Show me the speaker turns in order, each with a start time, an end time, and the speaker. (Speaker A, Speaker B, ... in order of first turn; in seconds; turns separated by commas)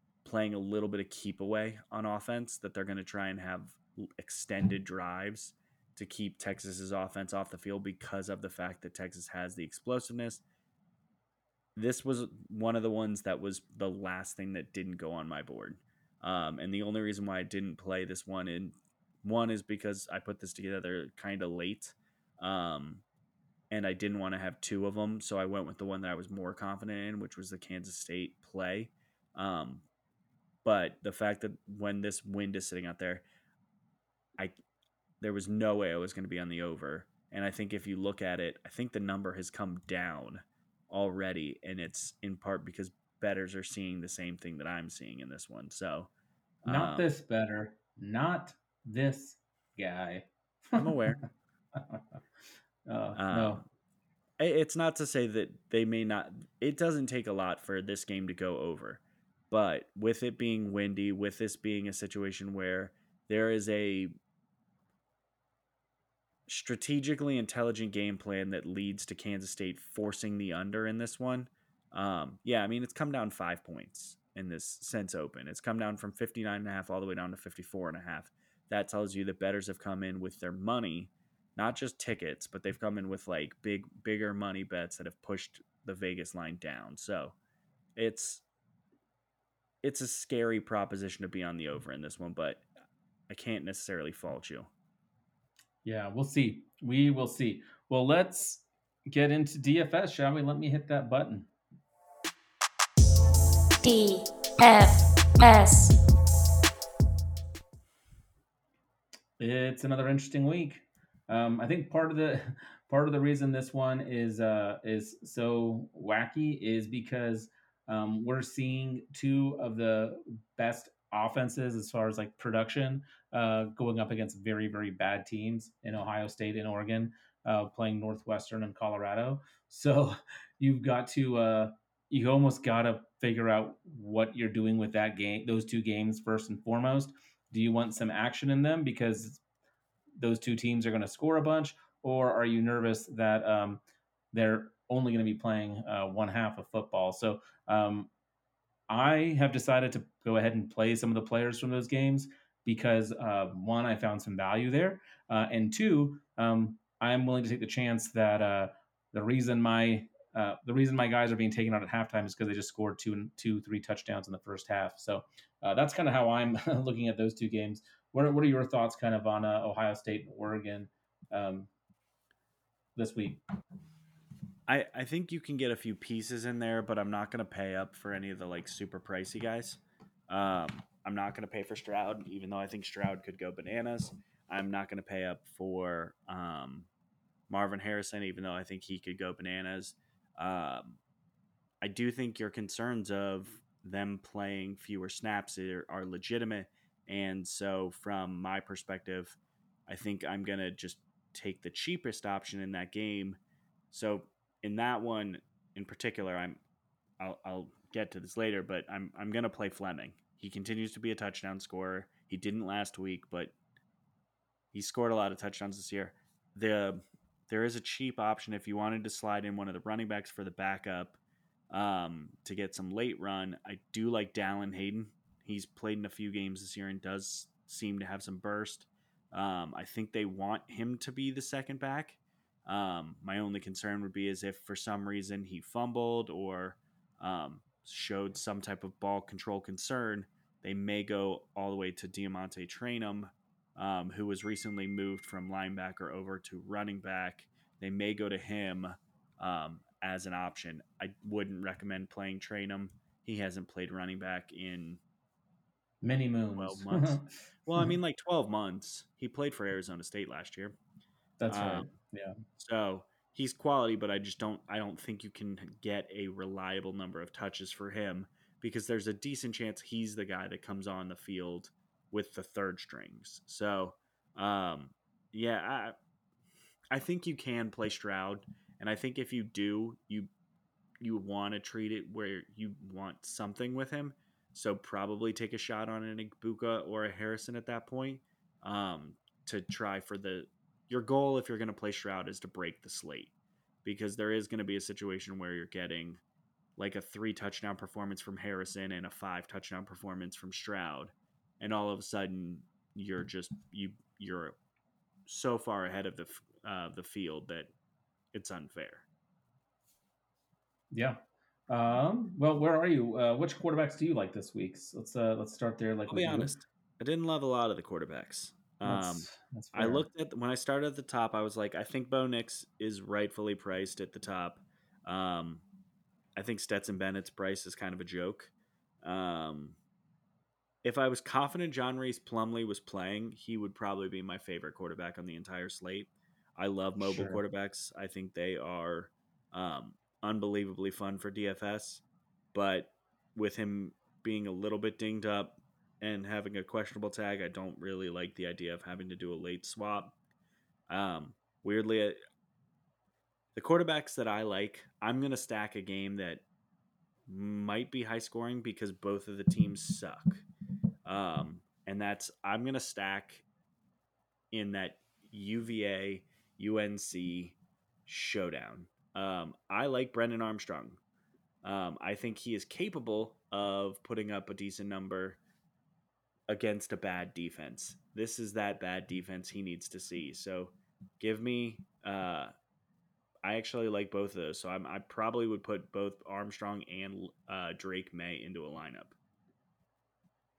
Speaker A: 0.2-10.4, Speaker A: 11.8-23.0, Speaker A: 23.7-29.9, Speaker A: 30.6-33.2, Speaker A: 35.2-46.1, Speaker A: 46.6-47.1, Speaker B: 46.7-51.2, Speaker A: 50.8-51.2, Speaker B: 52.9-53.6, Speaker A: 53.2-53.6, Speaker A: 54.4-64.1, Speaker A: 66.5-87.3, Speaker A: 88.0-88.4, Speaker A: 89.8-92.7, Speaker A: 93.3-94.7, Speaker B: 95.8-101.5, Speaker C: 103.8-106.0, Speaker B: 109.4-139.4, Speaker B: 140.2-143.8, Speaker B: 144.3-148.1, Speaker B: 148.9-171.7, Speaker B: 173.0-173.4, Speaker A: 174.7-186.9, Speaker A: 187.5-191.0, Speaker A: 191.8-203.4, Speaker A: 203.9-206.6, Speaker A: 207.2-213.5, Speaker A: 214.7-221.2, Speaker A: 221.7-255.0, Speaker B: 256.0-257.9, Speaker A: 256.6-260.8, Speaker B: 261.4-262.4, Speaker A: 261.5-261.9, Speaker A: 262.6-276.0, Speaker A: 276.9-280.3, Speaker A: 281.0-293.3, Speaker A: 293.8-296.2, Speaker A: 296.8-304.6, Speaker A: 305.3-307.7, Speaker A: 308.3-309.1, Speaker B: 310.9-316.5, Speaker A: 316.1-325.6, Speaker B: 318.9-320.1, Speaker A: 326.4-328.5, Speaker A: 329.0-329.8, Speaker A: 330.8-342.0, Speaker B: 337.0-337.4, Speaker A: 342.5-350.1, Speaker A: 350.9-352.2, Speaker A: 353.6-356.4, Speaker A: 357.3-360.4, Speaker A: 361.1-363.4, Speaker A: 364.5-367.6, Speaker A: 368.1-371.0, Speaker A: 371.6-375.4, Speaker A: 376.5-382.5, Speaker A: 383.4-389.2